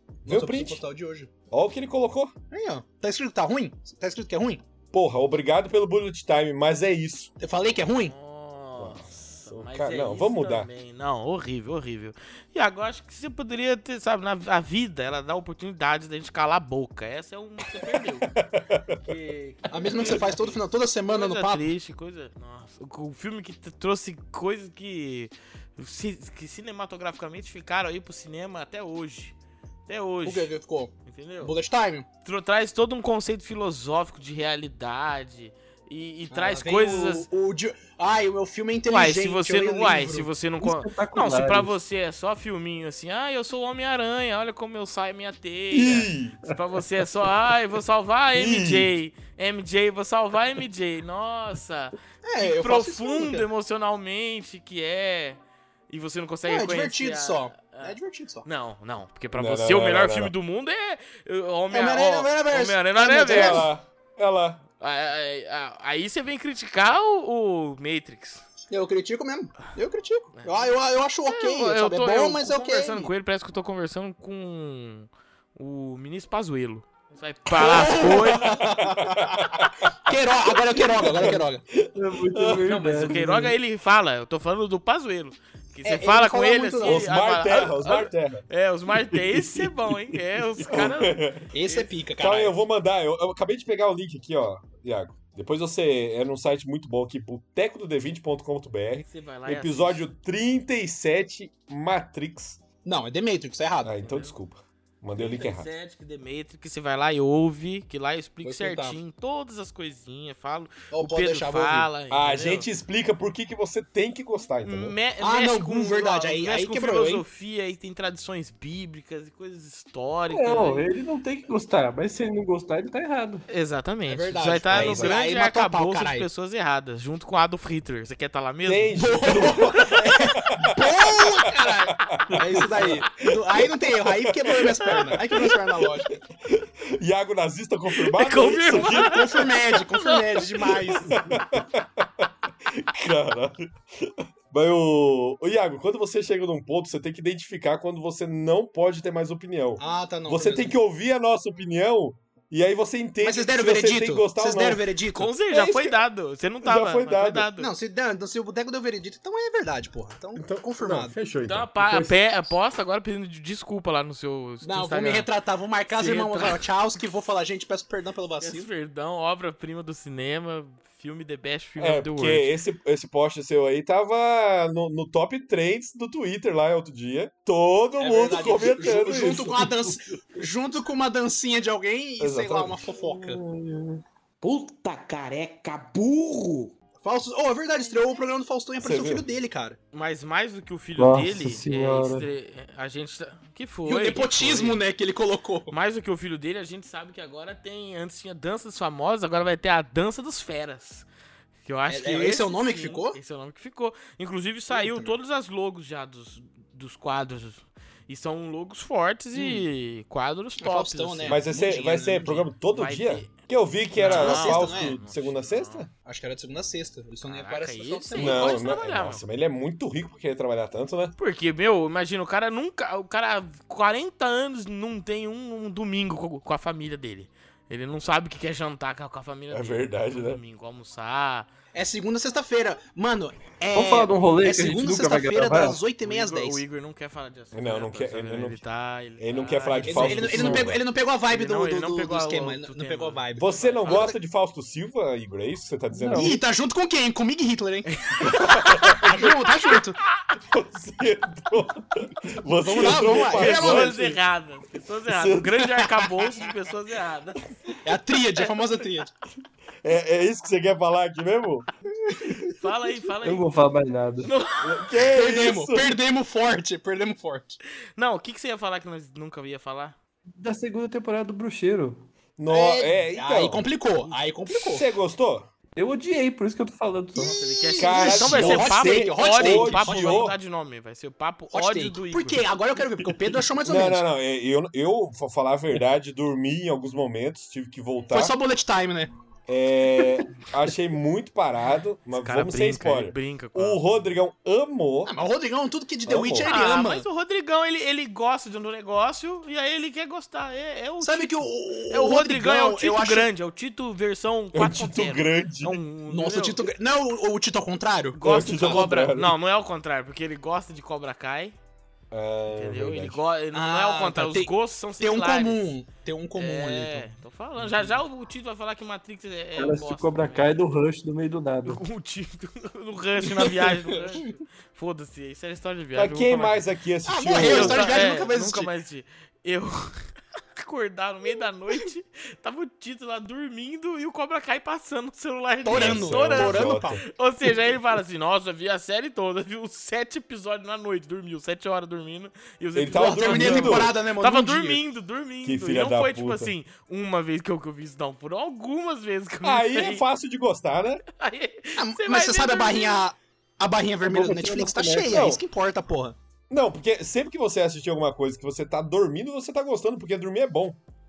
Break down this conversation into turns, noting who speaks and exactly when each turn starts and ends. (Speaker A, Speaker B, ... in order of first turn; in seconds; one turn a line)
Speaker A: 0.2-1.3
Speaker B: 0.2-0.8
Speaker B: 1.5-2.3
Speaker A: 2.5-4.6
Speaker B: 4.9-7.3
Speaker A: 7.4-8.1
Speaker C: 7.8-18.3
Speaker B: 8.8-10.7
Speaker B: 18.0-19.0
Speaker C: 18.9-29.4
Speaker A: 19.7-21.7
Speaker C: 29.9-30.5
Speaker A: 30.2-32.1
Speaker C: 31.1-31.5
Speaker C: 32.2-37.3
Speaker A: 36.3-40.3
Speaker C: 38.9-63.7
Speaker D: 40.6-41.7
Speaker B: 45.7-46.4
Speaker B: 48.3-48.9
Speaker A: 52.2-53.4
Speaker A: 56.5-58.4
Speaker B: 59.3-60.3
Speaker A: 61.7-63.7
Speaker B: 63.3-64.6
Speaker C: 64.8-68.5
Speaker A: 68.7-73.1
Speaker C: 70.3-70.7
Speaker C: 71.2-78.5
Speaker A: 77.5-81.6
Speaker B: 78.0-80.2
Speaker B: 80.7-82.7
Speaker D: 81.9-83.5
Speaker C: 82.7-91.9
Speaker A: 85.8-87.0
Speaker B: 86.8-89.7
Speaker B: 90.6-91.5
Speaker A: 91.5-92.5
Speaker B: 92.2-102.6
Speaker C: 99.1-100.0
Speaker A: 102.8-103.9
Speaker B: 103.8-105.7
Speaker C: 104.0-104.3
Speaker C: 105.1-112.7
Speaker A: 108.4-109.0
Speaker A: 110.9-111.9
Speaker B: 112.1-115.0
Speaker C: 114.6-120.9
Speaker A: 115.2-117.2
Speaker D: 120.3-123.4
Speaker C: 123.5-130.2
Speaker A: 124.1-126.3
Speaker B: 124.7-125.1
Speaker B: 128.6-131.5
Speaker A: 128.9-136.1
Speaker B: 132.0-135.6
Speaker D: 132.3-132.9
Speaker C: 134.6-135.4
Speaker B: 136.4-139.4
Speaker C: 137.9-140.8
Speaker A: 138.7-141.2
Speaker B: 140.9-154.9
Speaker A: 149.8-150.7
Speaker A: 153.2-155.3
Speaker C: 155.1-157.7
Speaker B: 155.5-156.0
Speaker B: 156.6-157.5
Speaker A: 157.6-161.1
Speaker B: 160.3-162.2
Speaker C: 161.4-165.3
Speaker A: 164.6-168.7
Speaker C: 165.9-166.6
Speaker C: 168.4-172.5
Speaker B: 171.8-179.7
Speaker A: 178.0-183.4
Speaker B: 182.2-182.9
Speaker D: 183.0-184.0
Speaker E: 184.4-186.7
Speaker A: 187.0-189.8
Speaker B: 188.8-189.2
Speaker C: 189.9-194.8
Speaker D: 191.0-192.3
Speaker A: 193.8-195.7
Speaker C: 195.7-201.1
Speaker C: 201.6-211.4
Speaker A: 201.9-203.2
Speaker A: 204.7-205.1
Speaker A: 210.6-212.5
Speaker B: 211.2-215.9
Speaker C: 212.6-213.3
Speaker A: 214.0-214.9
Speaker C: 214.0-215.9
Speaker A: 216.0-218.8
Speaker C: 217.2-219.2
Speaker B: 218.2-221.1
Speaker C: 221.2-231.5
Speaker B: 229.5-230.4
Speaker A: 231.7-236.6
Speaker D: 233.7-235.8
Speaker C: 236.0-240.5
Speaker B: 237.5-238.6
Speaker B: 239.2-240.8
Speaker A: 239.8-244.2
Speaker D: 240.2-240.7
Speaker C: 241.3-244.1
Speaker B: 243.3-246.4
Speaker D: 245.9-246.3
Speaker A: 246.1-250.0
Speaker C: 247.9-249.2
Speaker B: 248.2-249.3
Speaker B: 250.4-254.2
Speaker A: 252.6-254.1
Speaker C: 252.7-257.8
Speaker B: 255.1-255.6
Speaker A: 255.8-256.1
Speaker A: 257.8-259.1
Speaker C: 258.3-258.7
Speaker B: 259.8-261.7
Speaker A: 262.1-262.5
Speaker C: 262.6-263.6
Speaker D: 263.2-264.3
Speaker C: 264.2-265.0
Speaker B: 264.6-265.9
Speaker A: 265.1-267.6
Speaker C: 267.9-269.9
Speaker D: 270.4-272.0
Speaker B: 272.4-273.6
Speaker A: 272.5-274.9
Speaker B: 274.5-275.5
Speaker D: 275.8-277.4
Speaker A: 277.2-280.3
Speaker C: 277.2-282.4
Speaker B: 277.8-280.4
Speaker A: 281.5-284.0
Speaker B: 283.6-288.4
Speaker A: 288.1-289.1
Speaker B: 289.5-295.1
Speaker C: 292.1-293.9
Speaker A: 295.1-297.1
Speaker B: 296.1-296.5
Speaker C: 296.4-306.7
Speaker A: 301.0-303.3
Speaker B: 304.5-305.8
Speaker A: 306.1-308.9
Speaker C: 308.1-311.5
Speaker B: 308.2-309.3
Speaker B: 312.1-313.2
Speaker C: 312.5-315.7
Speaker A: 313.5-317.1
Speaker C: 316.4-320.6
Speaker D: 319.6-321.8
Speaker C: 321.6-326.6
Speaker A: 323.2-324.2
Speaker B: 325.9-328.0
Speaker A: 327.1-328.7
Speaker C: 327.3-330.0
Speaker C: 330.6-350.0
Speaker A: 335.6-337.0
Speaker B: 335.6-337.0
Speaker B: 342.7-343.9
Speaker A: 342.9-344.8
Speaker B: 345.4-346.5
Speaker B: 349.4-351.0
Speaker C: 351.1-353.1
Speaker A: 351.8-356.1
Speaker D: 354.0-355.3
Speaker B: 355.1-355.4
Speaker B: 356.5-360.8